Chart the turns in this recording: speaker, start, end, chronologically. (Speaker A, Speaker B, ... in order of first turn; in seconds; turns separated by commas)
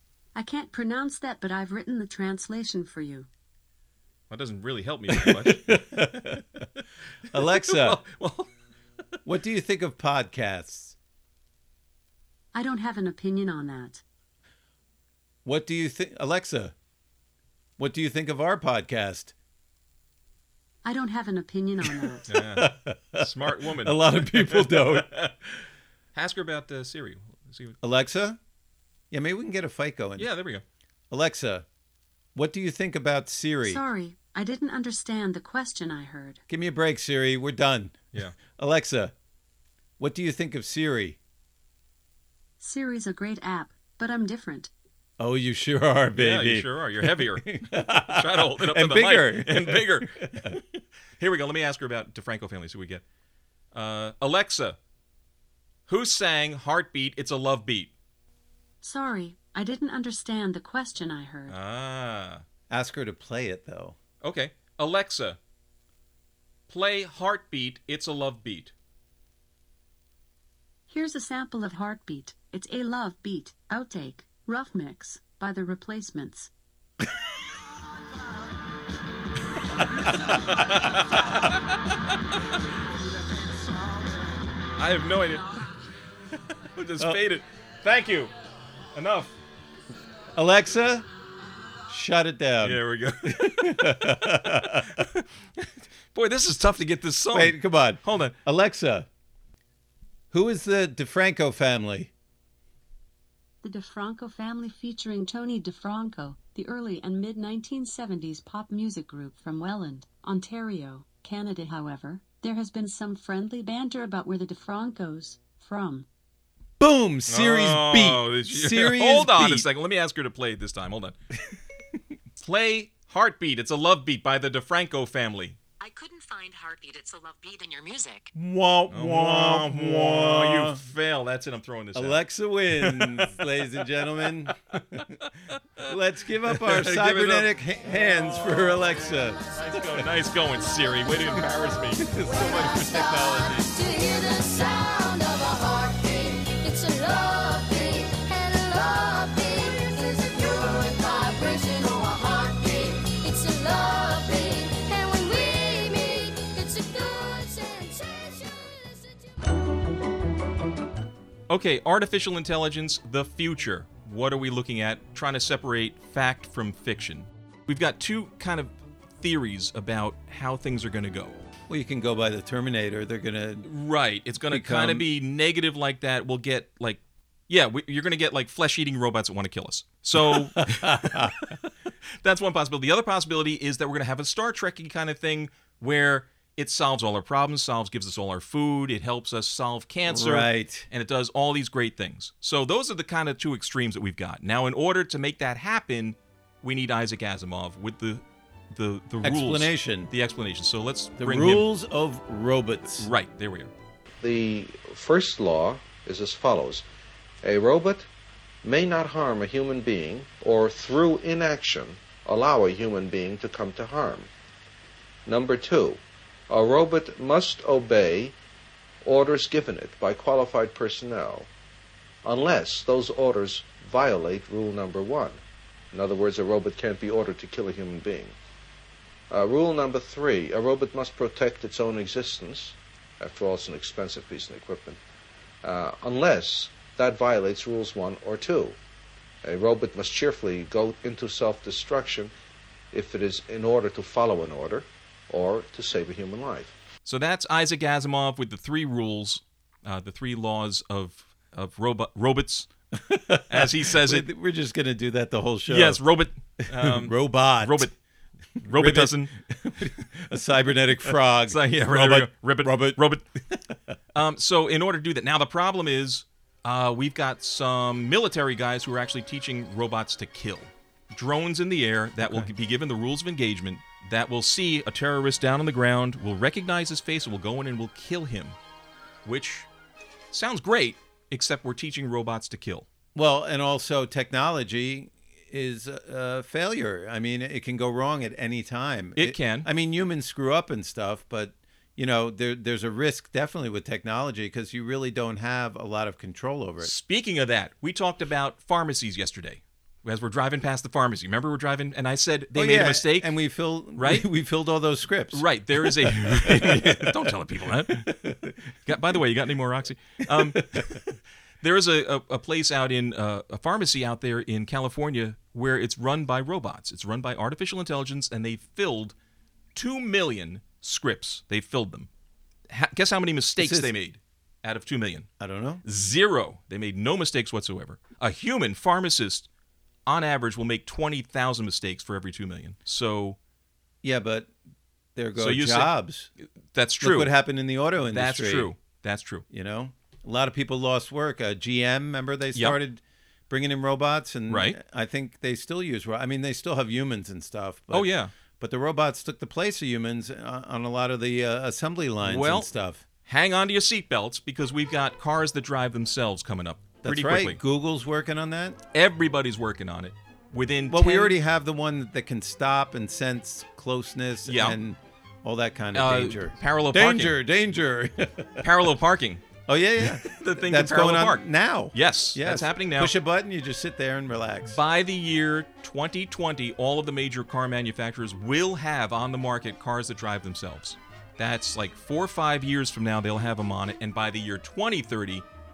Speaker A: 0.3-3.3, Speaker B: 4.3-5.8, Speaker C: 5.1-6.7, Speaker C: 7.3-8.0, Speaker B: 7.3-8.5, Speaker C: 9.2-11.0, Speaker A: 12.5-14.0, Speaker C: 15.4-16.7, Speaker C: 17.8-19.3, Speaker A: 20.8-22.2, Speaker C: 22.0-25.2, Speaker B: 22.3-25.3, Speaker B: 26.1-27.8, Speaker C: 27.8-28.4, Speaker C: 29.1-30.3, Speaker B: 30.2-30.6, Speaker C: 31.1-31.7, Speaker C: 32.4-33.8, Speaker A: 33.6-36.4, Speaker C: 36.5-39.1, Speaker C: 40.0-41.2, Speaker A: 42.6-44.7, Speaker C: 45.2-50.6, Speaker B: 46.2-50.5, Speaker B: 51.2-53.0, Speaker B: 53.7-54.8, Speaker B: 55.9-57.9, Speaker A: 58.8-61.5, Speaker B: 61.5-62.4, Speaker C: 62.7-64.0, Speaker B: 64.2-65.4, Speaker B: 66.7-68.7, Speaker A: 70.9-76.5, Speaker B: 80.3-81.6, Speaker B: 84.8-85.5, Speaker B: 86.7-88.3, Speaker B: 88.9-89.3, Speaker C: 90.3-91.1, Speaker C: 91.9-95.0, Speaker B: 92.6-98.4, Speaker C: 97.3-99.1, Speaker C: 100.3-102.1, Speaker A: 103.6-116.1, Speaker C: 116.8-119.7, Speaker B: 117.3-121.2, Speaker B: 122.4-125.6, Speaker D: 125.8-128.3, Speaker C: 128.3-130.8, Speaker B: 128.9-132.2, Speaker C: 131.9-135.2, Speaker B: 132.7-133.7, Speaker B: 134.2-134.8, Speaker B: 135.5-135.9, Speaker C: 135.8-140.1, Speaker B: 136.5-137.5, Speaker B: 138.4-138.8, Speaker B: 139.5-142.1, Speaker C: 141.9-143.7, Speaker E: 142.3-159.2, Speaker B: 161.5-171.4, Speaker C: 171.7-173.7, Speaker B: 173.6-181.5, Speaker C: 174.5-175.1, Speaker C: 180.2-181.6, Speaker B: 182.2-201.7, Speaker C: 190.1-190.9, Speaker C: 199.2-200.1, Speaker C: 201.2-203.1, Speaker B: 202.9-203.7, Speaker F: 204.2-206.8, Speaker F: 207.4-208.1, Speaker F: 208.6-214.3, Speaker F: 215.2-218.4, Speaker F: 219.0-221.5, Speaker F: 222.2-225.4, Speaker F: 225.9-228.4, Speaker F: 229.3-235.0, Speaker F: 235.6-238.8, Speaker F: 239.4-242.3, Speaker F: 242.9-246.8, Speaker B: 247.0-252.7, Speaker C: 253.0-256.0, Speaker B: 253.5-254.3, Speaker B: 255.7-257.9, Speaker C: 256.7-257.9, Speaker C: 258.6-263.8, Speaker B: 258.6-259.3, Speaker B: 261.4-263.2, Speaker B: 264.1-278.6, Speaker C: 272.2-272.5, Speaker B: 279.2-279.7, Speaker B: 280.3-282.9, Speaker C: 283.1-296.9, Speaker B: 289.2-289.7, Speaker B: 296.8-303.3, Speaker C: 302.5-307.3, Speaker B: 304.0-304.3, Speaker B: 305.3-308.2, Speaker C: 307.9-308.9, Speaker B: 308.9-311.1, Speaker C: 310.3-311.0, Speaker B: 311.6-319.1, Speaker B: 319.8-322.1, Speaker B: 322.7-325.3, Speaker C: 323.6-323.9, Speaker C: 325.4-325.8, Speaker B: 325.8-329.5, Speaker B: 330.1-333.4, Speaker C: 334.0-334.5, Speaker C: 335.2-336.3, Speaker B: 335.4-335.9, Speaker B: 336.7-337.3, Speaker C: 337.0-338.7, Speaker B: 338.1-339.4, Speaker C: 339.5-353.0, Speaker B: 344.5-344.8, Speaker B: 347.9-348.3, Speaker B: 352.2-352.7, Speaker B: 353.2-357.6, Speaker C: 357.0-358.8, Speaker B: 358.9-361.4, Speaker C: 360.9-368.7, Speaker B: 364.5-364.8, Speaker B: 365.9-367.4, Speaker B: 368.6-369.4, Speaker C: 369.7-374.8, Speaker B: 370.0-373.1, Speaker B: 374.7-385.4